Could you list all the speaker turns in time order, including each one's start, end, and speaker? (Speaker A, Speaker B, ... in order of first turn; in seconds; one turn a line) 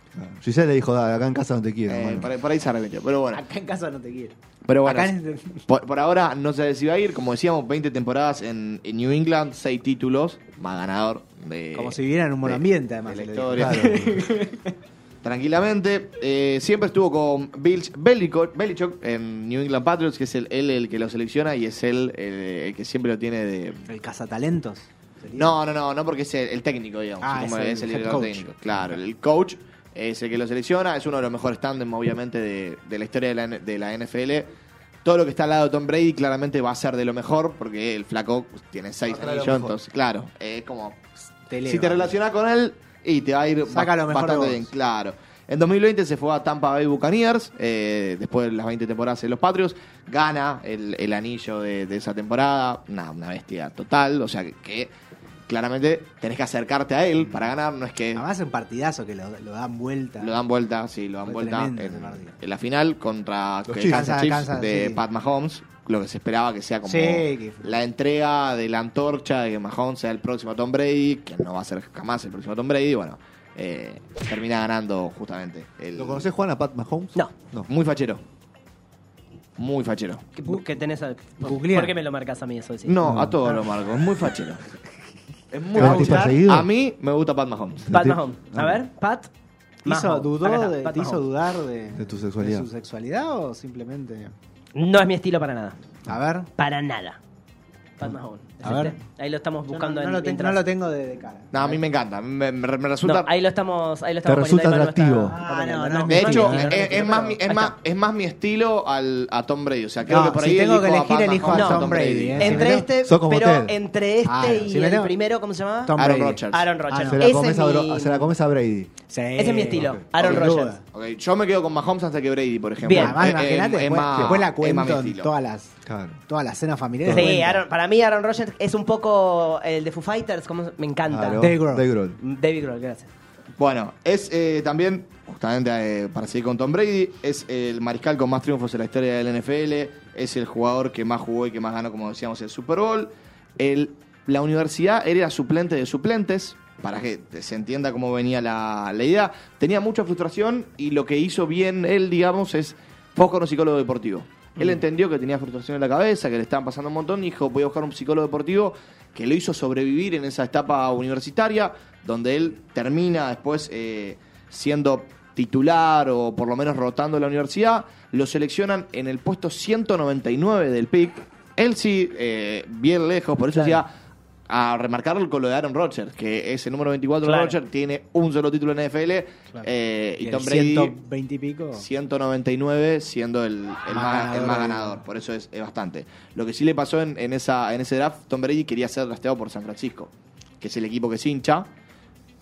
Speaker A: 0.1-2.3
Speaker B: 1.9-3.4
Speaker C: 3.3-5.7
Speaker B: 4.6-5.1
Speaker B: 5.7-13.9
Speaker C: 11.7-14.7
Speaker A: 13.5-14.2
Speaker B: 15.2-23.8
Speaker C: 23.8-25.6
Speaker B: 25.4-34.5
Speaker C: 27.2-28.5
Speaker B: 35.0-41.0
Speaker A: 39.0-39.8
Speaker C: 41.5-42.1
Speaker B: 41.6-54.9
Speaker C: 43.7-44.7
Speaker B: 55.5-58.2
Speaker C: 58.1-60.4
Speaker B: 60.2-76.2
Speaker C: 61.2-62.4
Speaker A: 63.7-64.1
Speaker C: 63.8-65.0
Speaker C: 66.8-67.8
Speaker A: 76.0-77.7
Speaker B: 77.7-78.2
Speaker B: 79.6-80.2
Speaker D: 80.3-83.0
Speaker C: 81.4-81.9
Speaker B: 82.8-84.6
Speaker A: 83.0-83.4
Speaker B: 85.5-87.9
Speaker A: 85.7-86.7
Speaker C: 85.8-86.4
Speaker A: 87.8-88.8
Speaker D: 87.9-89.3
Speaker D: 89.8-91.2
Speaker C: 89.8-94.3
Speaker A: 92.0-92.7
Speaker D: 94.7-95.8
Speaker C: 96.1-96.5
Speaker D: 96.6-97.2
Speaker D: 98.0-100.6
Speaker C: 98.6-99.0
Speaker C: 99.7-101.8
Speaker B: 101.5-103.3
Speaker D: 103.0-107.7
Speaker A: 104.2-105.4
Speaker C: 105.3-107.4
Speaker B: 106.1-112.6
Speaker C: 110.1-112.9
Speaker D: 111.5-116.0
Speaker A: 112.4-113.7
Speaker C: 114.2-115.1
Speaker C: 115.8-117.2
Speaker B: 116.0-116.6
Speaker D: 116.5-118.3
Speaker A: 117.0-118.9
Speaker C: 119.1-120.8
Speaker D: 119.4-120.7
Speaker A: 119.7-120.0
Speaker B: 120.2-125.3
Speaker D: 122.8-123.2
Speaker C: 122.9-125.7
Speaker A: 124.1-124.4
Speaker A: 125.8-126.2
Speaker C: 126.3-127.6
Speaker A: 127.0-127.4
Speaker D: 127.1-131.5
Speaker A: 131.1-132.2
Speaker C: 131.4-131.9
Speaker D: 132.2-133.1
Speaker B: 133.6-173.9
Speaker D: 173.5-173.8
Speaker B: 174.5-180.9
Speaker D: 177.2-177.6
Speaker C: 180.2-181.8
Speaker B: 181.8-191.7
Speaker C: 183.9-185.0